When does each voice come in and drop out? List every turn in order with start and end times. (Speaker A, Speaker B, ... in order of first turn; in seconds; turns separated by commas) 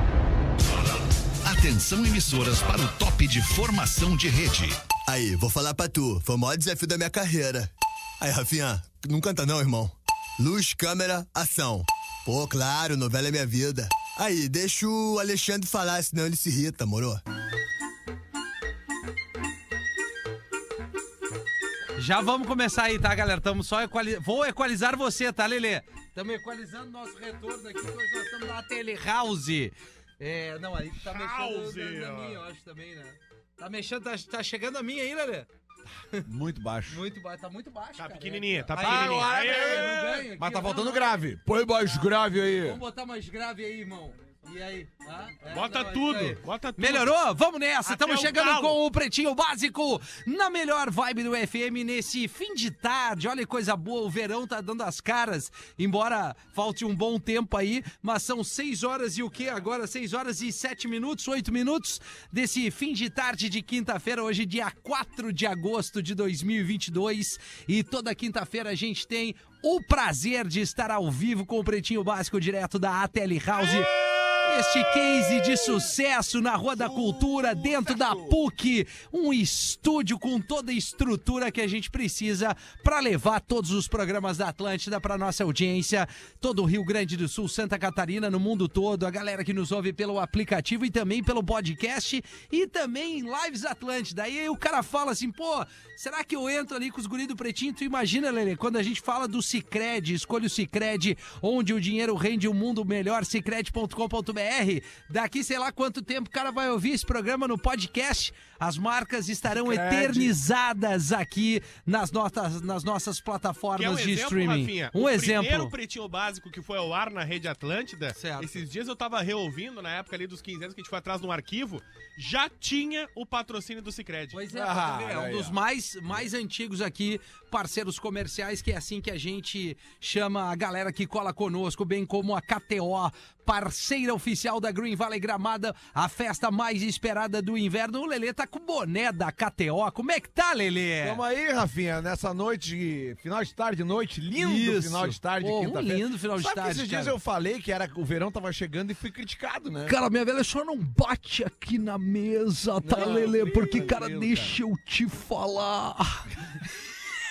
Speaker A: 1.4-4.7, Speaker B: 4.9-7.7, Speaker B: 8.2-17.2, Speaker C: 22.0-35.5, Speaker D: 31.0-32.4, Speaker E: 36.2-37.0, Speaker C: 36.9-41.2, Speaker D: 38.0-40.0, Speaker E: 38.7-42.8, Speaker C: 42.5-115.7, Speaker D: 45.5-47.1, Speaker D: 47.8-48.8, Speaker E: 73.5-75.8, Speaker E: 76.7-78.4, Speaker E: 109.5-110.3, Speaker D: 113.8-124.4, Speaker C: 118.1-118.6, Speaker C: 124.3-141.2, Speaker E: 124.5-125.6, Speaker E: 141.0-150.0, Speaker C: 144.3-147.2, Speaker C: 149.9-156.7, Speaker E: 152.8-154.6